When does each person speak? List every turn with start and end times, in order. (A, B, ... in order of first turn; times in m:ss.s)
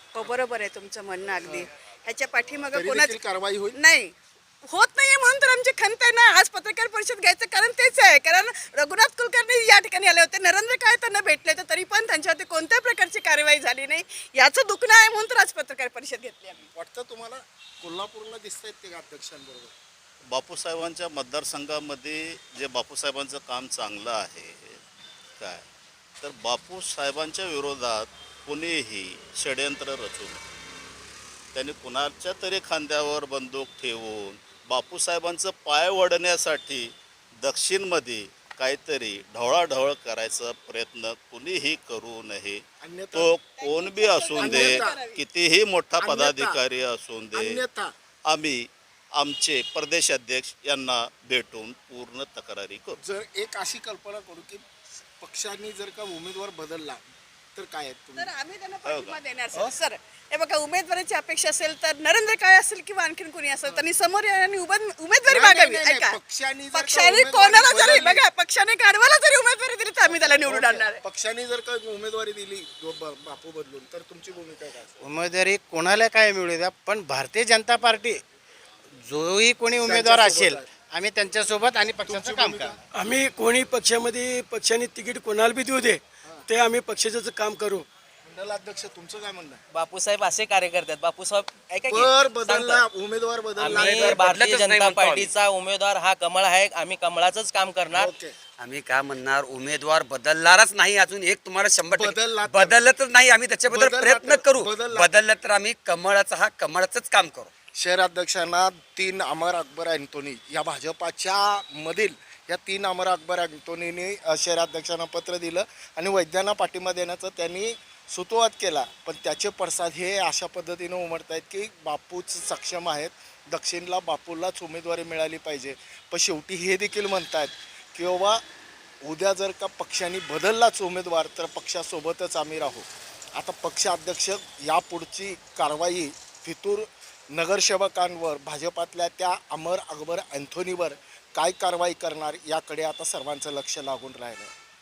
0:00.1-0:03.2 A
0:02.7-0:03.8 B
0:03.7-0:16.7 A
0:16.7-0:19.7 B
0:20.3-0:24.8 C
0:25.4-0:25.6 C
0:26.2-0:30.4 C
0:31.5-0:42.6 C
0:42.8-0:43.3 B
0:43.1-0:47.6 C
0:43.4-0:45.2 A
0:44.3-0:45.0 B
0:46.0-0:46.6 B
0:47.3-0:47.9 B
0:48.3-0:48.6 C
0:49.2-0:53.0 C
0:53.0-0:54.6 B
0:55.2-0:57.0 B
0:57.6-0:58.3 B
0:58.2-1:06.2 A
0:58.9-0:59.2 C
1:03.6-1:03.9 B
1:05.3-1:08.3 B
1:06.7-1:11.0 A
1:10.0-1:15.0 B
1:15.0-1:18.2 D
1:19.0-1:22.8 D
1:19.7-1:20.7 B
1:22.0-1:22.8 B
1:23.0-1:27.8 E
1:28.2-1:29.6 B
1:29.7-1:32.8 F
1:31.9-1:34.3 B
1:33.6-1:38.1 F
1:33.7-1:35.3 G
1:37.9-1:38.4 B
1:38.6-1:47.5 G
1:41.9-1:42.8 B
1:43.7-1:45.2 B
1:47.8-2:08.4 B
2:09.0-2:24.5 B